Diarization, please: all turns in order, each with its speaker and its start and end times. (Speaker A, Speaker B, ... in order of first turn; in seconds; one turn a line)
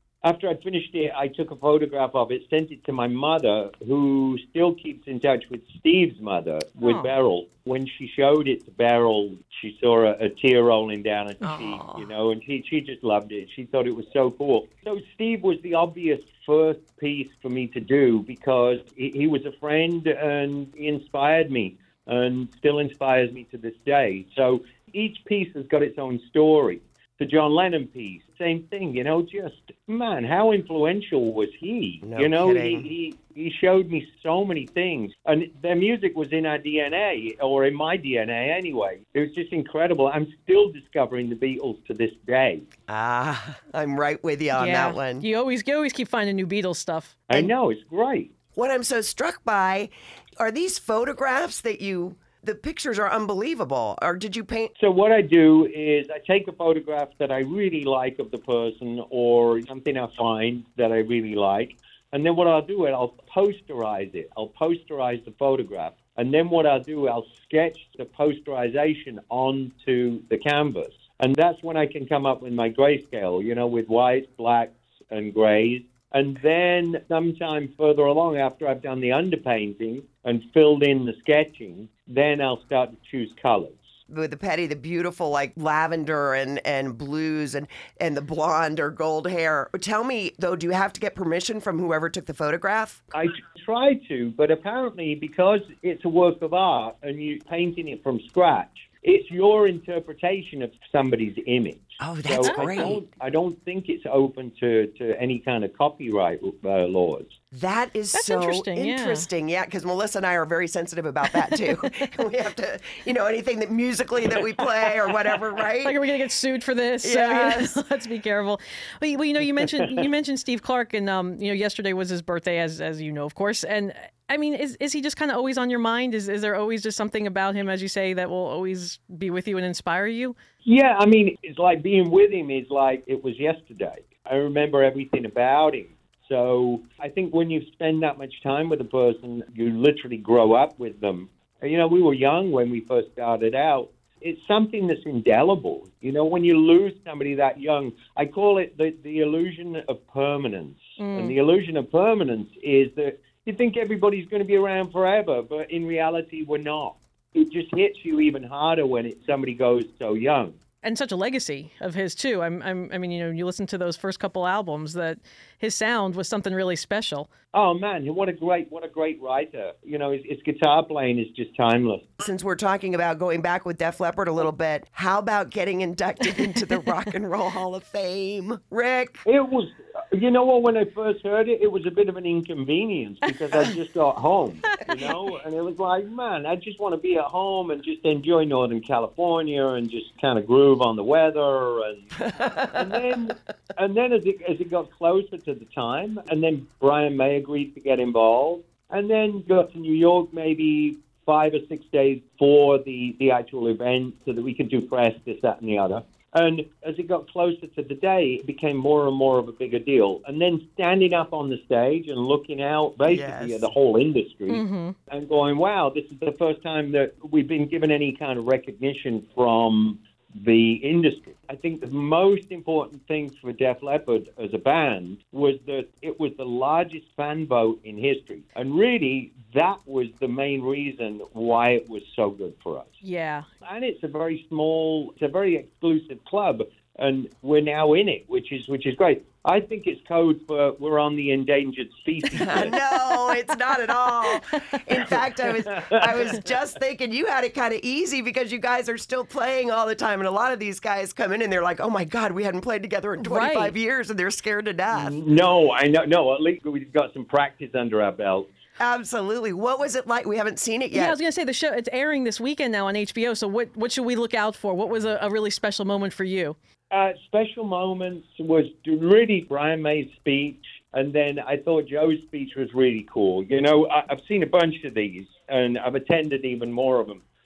Speaker A: 0.2-42.7
Speaker B: 6.8-7.1
Speaker C: 11.4-12.1
Speaker C: 32.0-32.9
Speaker C: 42.9-45.3
Speaker B: 44.5-47.2
Speaker A: 47.3-48.3
Speaker C: 48.5-54.7
Speaker A: 54.8-83.8
Speaker C: 84.1-93.0
Speaker A: 93.1-107.4
Speaker C: 102.0-103.0
Speaker B: 102.4-102.9
Speaker C: 107.5-116.0
Speaker B: 108.1-109.3
Speaker B: 111.4-112.0
Speaker B: 114.8-130.3
Speaker C: 117.0-117.8
Speaker A: 130.6-160.6
Speaker B: 151.0-151.3
Speaker B: 160.8-167.3
Speaker A: 167.5-172.1
Speaker C: 172.2-179.2
Speaker A: 179.2-233.0
Speaker B: 184.7-185.1
Speaker C: 192.2-193.0
Speaker C: 213.1-213.7
Speaker B: 214.5-214.9
Speaker B: 233.0-233.5
Speaker A: 233.6-242.7
Speaker B: 242.3-243.3
Speaker C: 242.3-255.2
Speaker B: 244.3-245.1
Speaker A: 245.7-246.4
Speaker B: 253.2-253.7
Speaker A: 254.9-258.5
Speaker C: 258.8-261.1
Speaker B: 260.9-266.6
Speaker A: 266.9-277.2